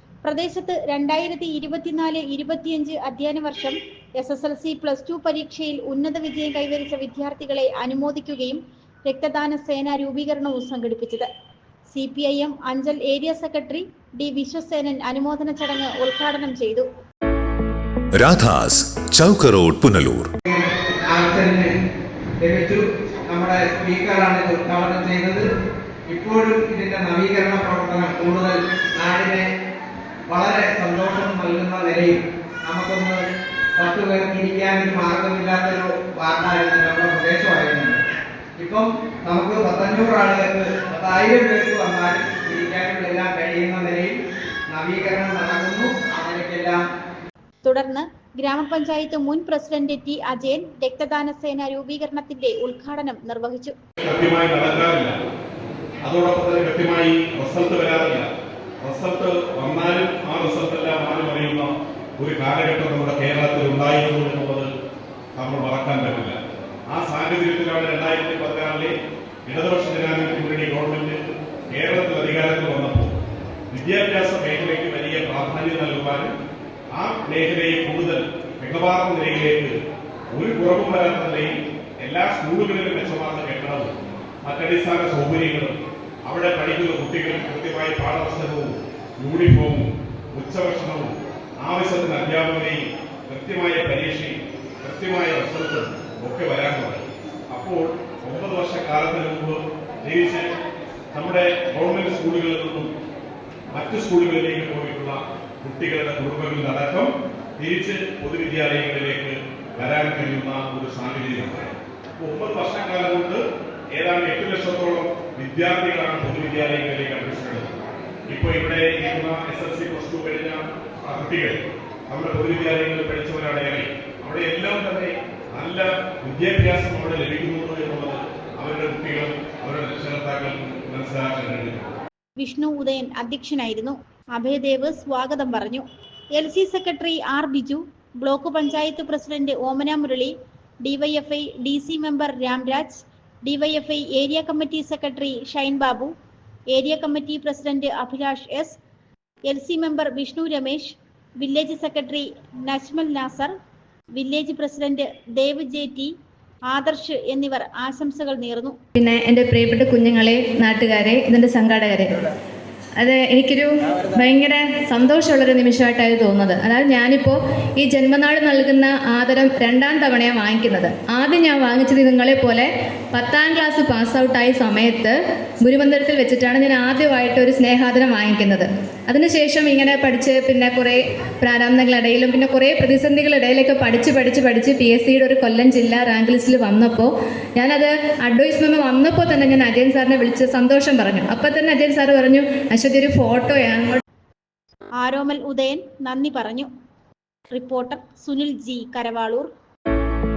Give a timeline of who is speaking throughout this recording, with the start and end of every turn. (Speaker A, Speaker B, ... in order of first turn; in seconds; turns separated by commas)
Speaker A: 0.2-11.3, Speaker A: 11.9-16.9, Speaker B: 18.2-20.3, Speaker C: 20.5-21.7, Speaker C: 22.4-25.5, Speaker C: 26.1-29.4, Speaker C: 30.3-38.0, Speaker C: 38.6-44.2, Speaker C: 44.7-46.8, Speaker A: 47.6-53.8, Speaker D: 54.0-55.2, Speaker D: 56.0-58.3, Speaker D: 58.8-64.7, Speaker D: 65.4-66.4, Speaker D: 66.9-69.0, Speaker D: 69.5-71.2, Speaker D: 71.7-73.2, Speaker D: 73.7-76.3, Speaker D: 76.9-79.8, Speaker D: 80.3-100.5, Speaker D: 101.1-102.9, Speaker D: 103.7-113.4, Speaker D: 114.0-117.7, Speaker D: 118.3-131.9, Speaker A: 132.4-146.1, Speaker A: 146.7-148.8, Speaker A: 149.5-153.5, Speaker A: 154.2-156.1, Speaker A: 156.7-158.8, Speaker E: 158.9-162.3, Speaker E: 163.0-194.0, Speaker A: 195.0-196.7, Speaker A: 197.5-199.5